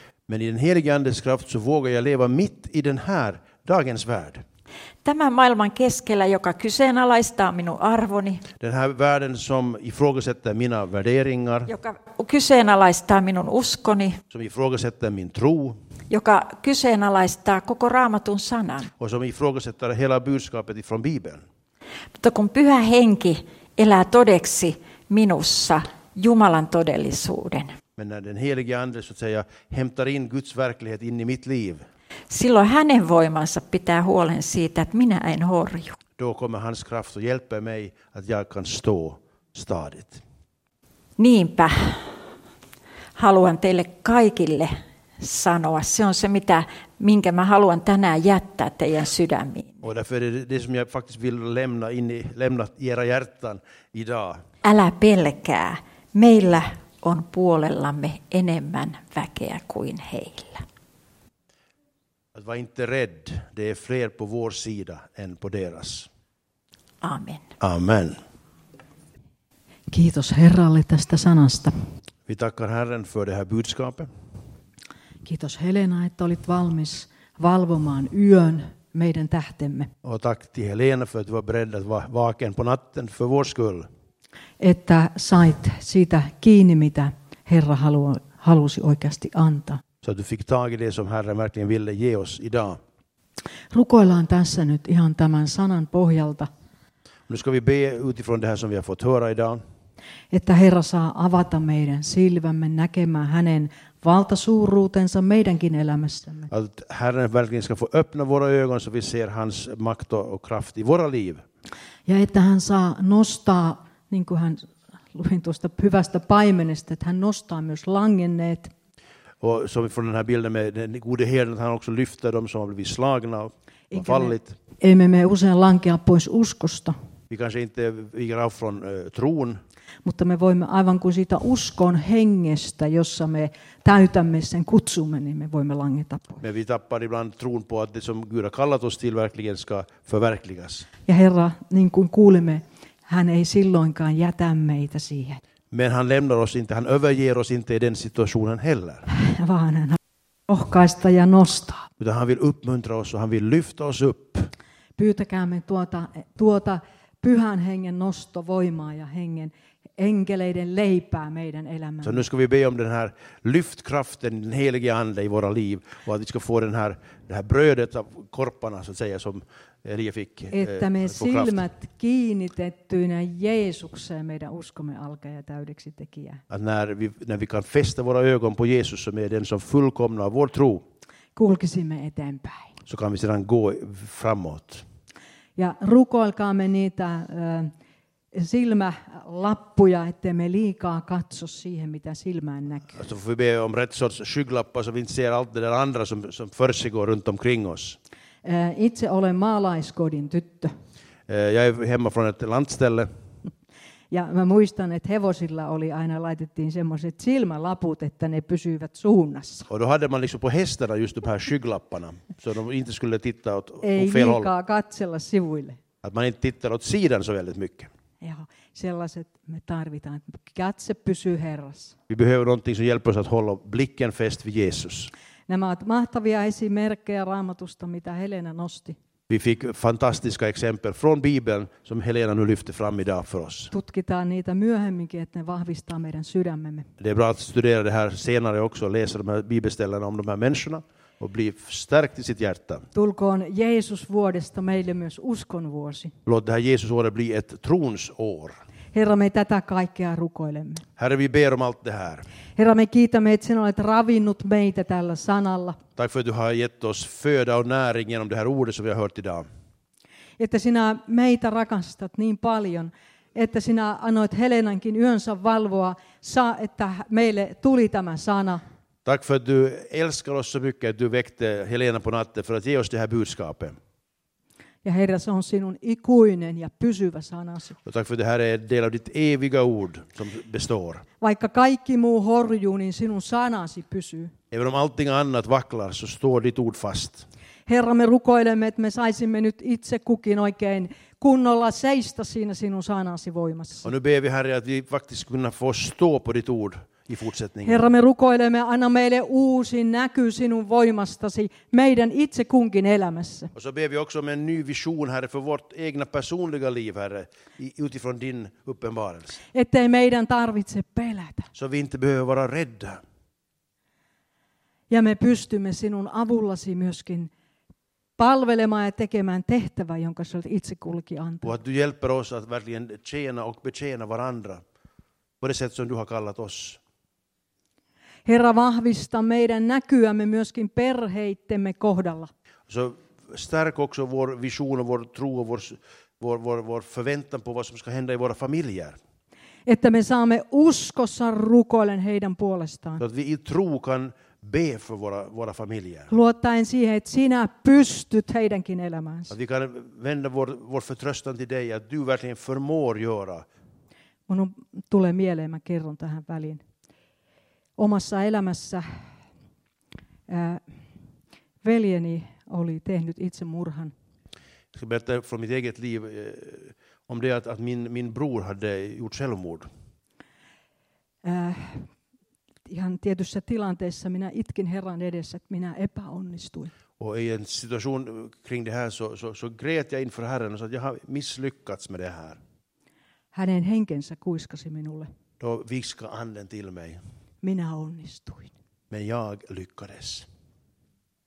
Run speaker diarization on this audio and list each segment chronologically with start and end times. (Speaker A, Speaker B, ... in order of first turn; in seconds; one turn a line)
Speaker A: 0.3-4.4
Speaker B: 5.0-8.4
Speaker A: 8.6-11.7
Speaker B: 11.7-14.2
Speaker A: 14.3-15.8
Speaker B: 16.1-18.9
Speaker A: 19.0-21.4
Speaker B: 22.2-27.8
Speaker A: 28.0-31.8
Speaker B: 32.3-36.0
Speaker A: 36.2-40.2
Speaker B: 41.2-42.1
Speaker B: 43.2-49.8
Speaker A: 49.8-54.4
Speaker B: 54.6-60.6
Speaker A: 62.4-66.1
Speaker B: 67.0-67.5
Speaker A: 67.6-68.2
Speaker C: 69.9-71.7
Speaker A: 72.3-74.1
Speaker C: 75.2-79.9
Speaker A: 80.0-83.9
Speaker C: 84.6-89.8
Speaker A: 90.0-92.8
Speaker C: 93.7-96.5
Speaker A: 97.3-99.6
Speaker C: 100.3-106.5
Speaker A: 106.5-111.4
Speaker C: 112.1-118.7
Speaker A: 119.4-124.6
Speaker C: 123.9-127.0
Speaker A: 127.3-129.6
Speaker C: 130.1-136.4
Speaker A: 136.4-140.9
Speaker C: 141.1-145.4
Speaker A: 145.7-149.1
Speaker C: 149.1-151.9
Speaker A: 152.0-154.5
Speaker C: 155.0-162.2
Speaker A: 162.0-171.7
Speaker C: 170.5-176.4
Speaker A: 176.5-180.8
Speaker C: 181.4-182.7
Speaker A: 182.9-184.8
Speaker C: 185.6-187.7
Speaker C: 188.3-193.0
Speaker A: 192.9-198.0
Speaker C: 198.4-200.7
Speaker A: 201.3-203.1
Speaker C: 204.1-209.7
Speaker A: 209.7-214.5
Speaker C: 213.8-215.8
Speaker A: 216.0-217.9
Speaker C: 218.2-222.0
Speaker A: 222.1-225.1
Speaker C: 225.5-229.0
Speaker A: 229.3-233.7
Speaker C: 233.7-236.9
Speaker A: 237.0-242.9
Speaker C: 242.9-246.1
Speaker A: 246.3-248.6
Speaker C: 248.9-250.8
Speaker A: 251.0-252.2
Speaker C: 252.6-255.8
Speaker A: 256.0-259.5
Speaker C: 260.4-268.6
Speaker A: 269.1-273.8
Speaker C: 274.8-277.8
Speaker A: 277.9-281.1
Speaker C: 281.2-284.3
Speaker A: 284.5-287.3
Speaker C: 287.7-293.9
Speaker A: 293.9-297.9
Speaker C: 297.7-303.5
Speaker A: 303.6-309.4
Speaker C: 309.5-311.5
Speaker A: 311.6-313.0
Speaker C: 314.9-317.3
Speaker C: 318.2-321.5
Speaker A: 321.4-324.6
Speaker A: 325.4-326.8
Speaker C: 328.2-332.3
Speaker A: 332.7-339.0
Speaker C: 339.7-343.0
Speaker A: 343.0-346.1
Speaker C: 346.1-349.3
Speaker A: 349.3-353.5
Speaker C: 354.3-356.6
Speaker C: 357.8-359.0
Speaker C: 360.3-360.6
Speaker C: 361.6-363.9
Speaker A: 364.7-369.7
Speaker C: 371.2-371.9
Speaker C: 372.7-376.7
Speaker A: 377.0-382.4
Speaker C: 383.3-385.1
Speaker A: 385.4-387.0
Speaker C: 387.4-388.5
Speaker A: 388.9-390.3